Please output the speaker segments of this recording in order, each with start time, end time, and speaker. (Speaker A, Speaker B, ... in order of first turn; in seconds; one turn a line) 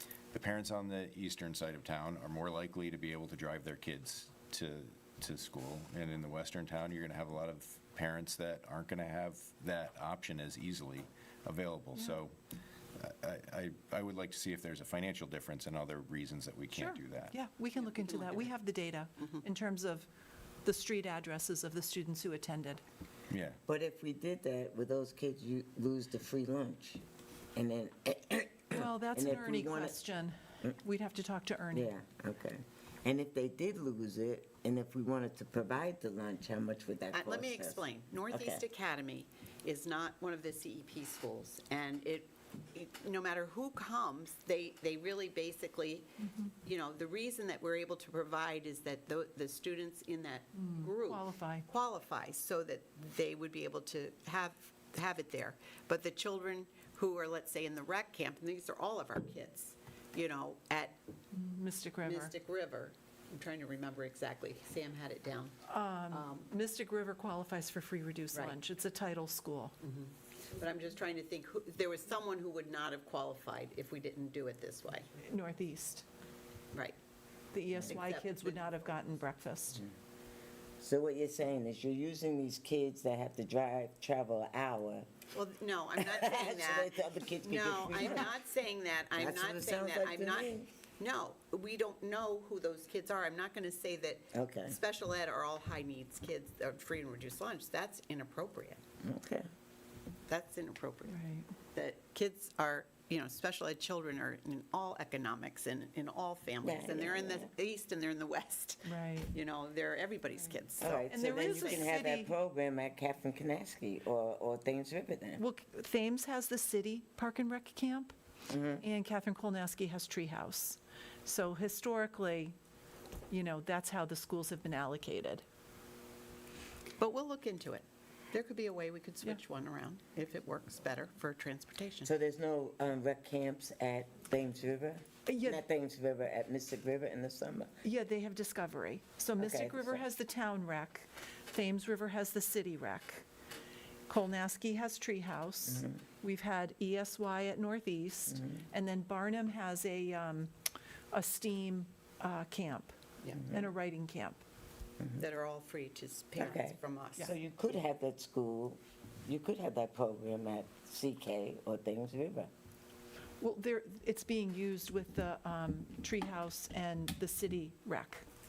Speaker A: 0.3-12.3
Speaker A: 13.0-17.3
Speaker B: 16.7-20.1
Speaker C: 17.8-18.5
Speaker B: 20.6-22.8
Speaker A: 23.3-23.6
Speaker D: 23.7-27.0
Speaker D: 27.6-30.0
Speaker B: 28.7-31.9
Speaker D: 31.7-38.6
Speaker C: 37.1-61.0
Speaker B: 46.2-46.5
Speaker B: 50.5-51.7
Speaker B: 61.3-62.3
Speaker C: 62.0-65.5
Speaker B: 65.7-69.8
Speaker C: 66.1-66.5
Speaker C: 69.8-75.1
Speaker B: 75.2-76.0
Speaker B: 77.5-79.8
Speaker C: 77.9-78.6
Speaker D: 80.8-85.1
Speaker C: 85.3-98.8
Speaker D: 86.0-88.4
Speaker D: 89.2-90.7
Speaker D: 94.3-94.8
Speaker D: 99.0-99.5
Speaker C: 100.3-101.2
Speaker B: 101.1-101.5
Speaker C: 101.7-111.8
Speaker D: 106.6-107.5
Speaker B: 108.8-109.3
Speaker D: 110.8-115.4
Speaker B: 111.1-112.3
Speaker B: 115.4-118.2
Speaker D: 118.5-118.8
Speaker B: 118.8-122.5
Speaker B: 123.3-125.4
Speaker C: 127.0-132.1
Speaker D: 132.0-137.7
Speaker B: 135.3-135.6
Speaker B: 137.8-143.2
Speaker D: 139.4-140.1
Speaker B: 144.1-150.5
Speaker D: 145.7-146.0
Speaker D: 148.3-148.6
Speaker B: 151.1-154.4
Speaker C: 155.2-157.3
Speaker D: 156.4-162.5
Speaker B: 163.4-168.2